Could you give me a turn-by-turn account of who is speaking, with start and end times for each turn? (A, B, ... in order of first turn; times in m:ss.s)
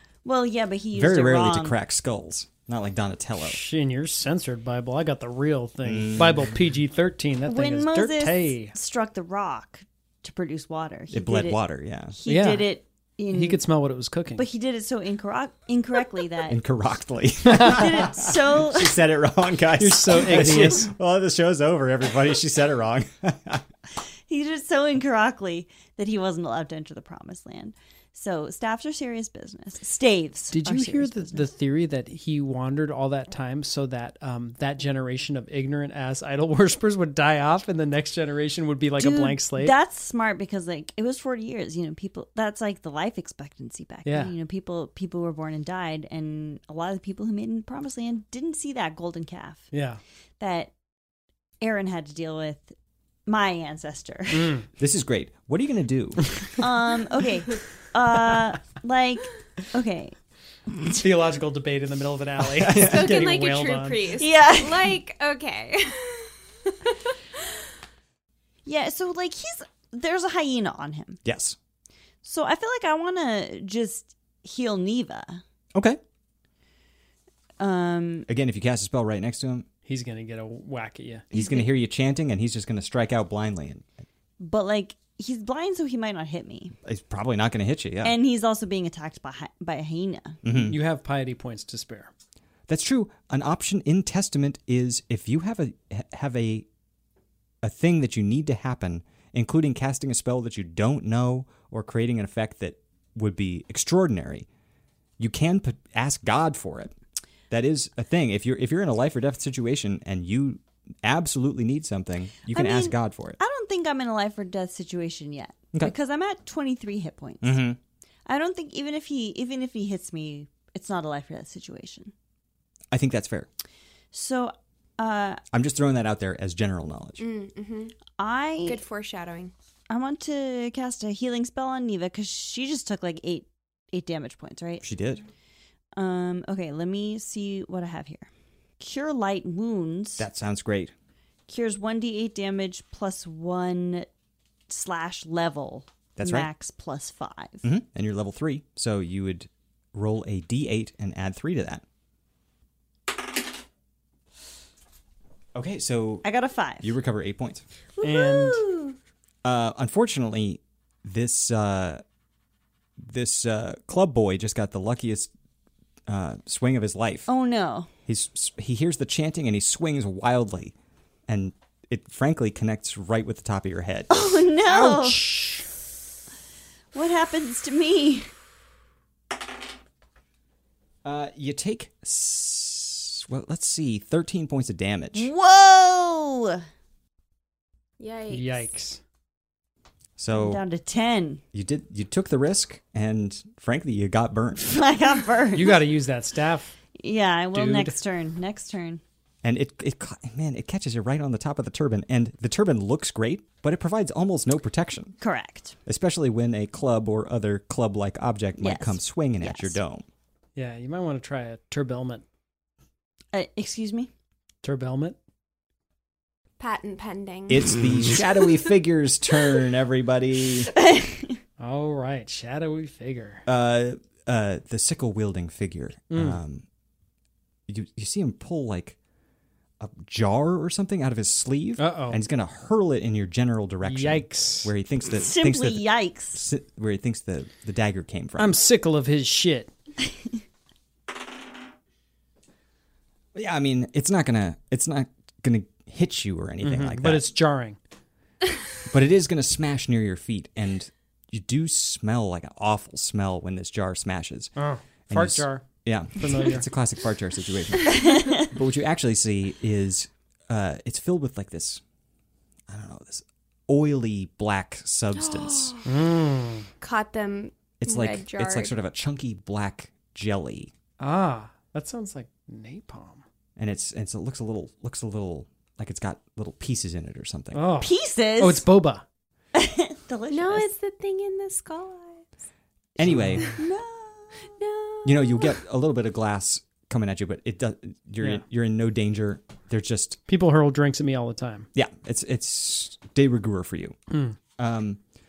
0:00.2-0:01.8 A
0:00.9-0:03.6 B
0:03.4-0:08.7 C
0:05.8-0:06.5 B
0:07.4-0:11.6 A
0:11.1-0:12.2 B
0:12.2-0:13.6 A
0:12.2-0:12.7 C
0:13.3-0:14.4 C
0:14.4-0:16.6 A
0:16.5-0:23.6 B
0:17.5-0:19.0 A
0:19.8-0:20.9 C
0:24.3-0:31.5 A
0:30.5-0:39.7 C
0:39.0-0:49.7 A
0:44.0-0:44.3 C
0:49.7-0:50.0 C
0:50.4-0:50.7 A
0:51.6-0:52.7 A
0:53.3-0:54.6 A
0:54.3-0:54.6 C
0:54.8-0:56.4 B
0:56.6-1:00.2 A
1:00.9-1:04.2 C
1:02.5-1:03.2 B
1:02.7-1:06.9 D
1:04.2-1:05.0 A
1:08.6-1:11.2 A
1:11.2-1:11.6 B
1:12.2-1:15.4 A
1:15.7-1:16.0 B
1:17.6-1:18.3 A
1:18.3-1:19.7 B
1:19.8-1:21.3 C
1:21.3-1:23.8 B
1:21.3-1:21.6 A
1:24.4-1:26.7 A
1:26.8-1:28.2 B
1:28.0-1:30.4 A
1:30.4-1:30.8 B
1:30.5-1:32.1 C
1:32.7-1:36.7 B
1:37.6-1:44.5 B
1:45.2-1:46.9 B
1:47.5-1:53.4 B
1:52.5-1:57.6 A
1:57.4-1:57.8 B
1:58.3-2:02.1 A
2:02.9-2:03.5 B
2:04.1-2:05.4 A
2:05.5-2:07.2 B
2:07.2-2:08.0 D
2:08.2-2:08.8 A
2:08.6-2:09.5 D
2:09.9-2:14.8 A
2:14.8-2:15.2 B
2:15.9-2:20.3 A
2:20.2-2:20.9 B
2:21.5-2:24.1 A
2:24.7-2:27.6 A
2:26.2-2:26.5 B
2:27.6-2:31.8 B
2:35.5-2:36.2 B
2:36.2-2:36.9 A
2:36.8-2:37.6 B
2:38.0-2:39.0 D
2:38.0-2:38.6 C
2:39.4-2:42.0 B
2:43.0-2:45.3 B
2:46.1-2:47.3 B
2:47.3-2:47.9 A
2:48.1-2:50.7 B
2:51.3-2:54.1 B
2:54.1-2:55.3 A
2:54.6-2:55.7 C
2:56.9-2:58.3 A
3:01.0-3:05.3 B
3:05.1-3:06.6 A
3:08.0-3:08.7 D
3:08.3-3:09.0 C
3:10.2-3:10.6 B
3:10.3-3:11.4 A
3:11.5-3:14.7 B
3:14.6-3:15.8 A
3:15.5-3:16.7 C
3:17.0-3:19.0 A
3:17.5-3:17.9 C
3:19.4-3:25.2 B
3:25.2-3:25.8 A
3:25.8-3:30.0 B
3:28.6-3:29.8 A
3:30.6-3:32.2 C
3:33.3-3:34.1 A
3:34.6-3:35.2 C
3:36.6-3:37.8 D
3:37.5-3:40.7 B
3:40.9-3:41.3 A
3:41.6-3:43.4 C
3:43.4-3:46.6 B
3:46.1-3:46.4 C
3:47.7-3:49.0 B
3:49.8-3:58.6 B
3:51.8-3:52.2 C
3:53.8-3:54.7 C
3:55.2-3:56.4 A
3:58.4-3:59.7 C
4:03.3-4:07.3 B
4:06.6-4:07.8 C
4:08.8-4:14.5 B
4:14.6-4:16.6 C
4:15.1-4:21.8 B
4:18.1-4:18.4 A
4:22.7-4:25.7 B
4:25.5-4:25.8 D
4:25.8-4:26.7 C
4:26.8-4:28.7 D
4:27.8-4:30.7 B
4:31.0-4:33.2 C
4:33.6-4:37.8 B
4:37.5-4:39.0 C
4:37.8-4:38.6 A
4:39.5-4:40.7 A
4:40.3-4:42.3 D
4:43.0-4:43.5 B
4:43.0-4:43.5 C
4:43.5-4:44.4 A
4:44.6-4:45.6 D
4:45.0-4:50.2 B
4:50.3-4:51.7 C
4:51.7-4:54.0 B
4:54.1-4:54.4 C
4:54.6-4:55.0 B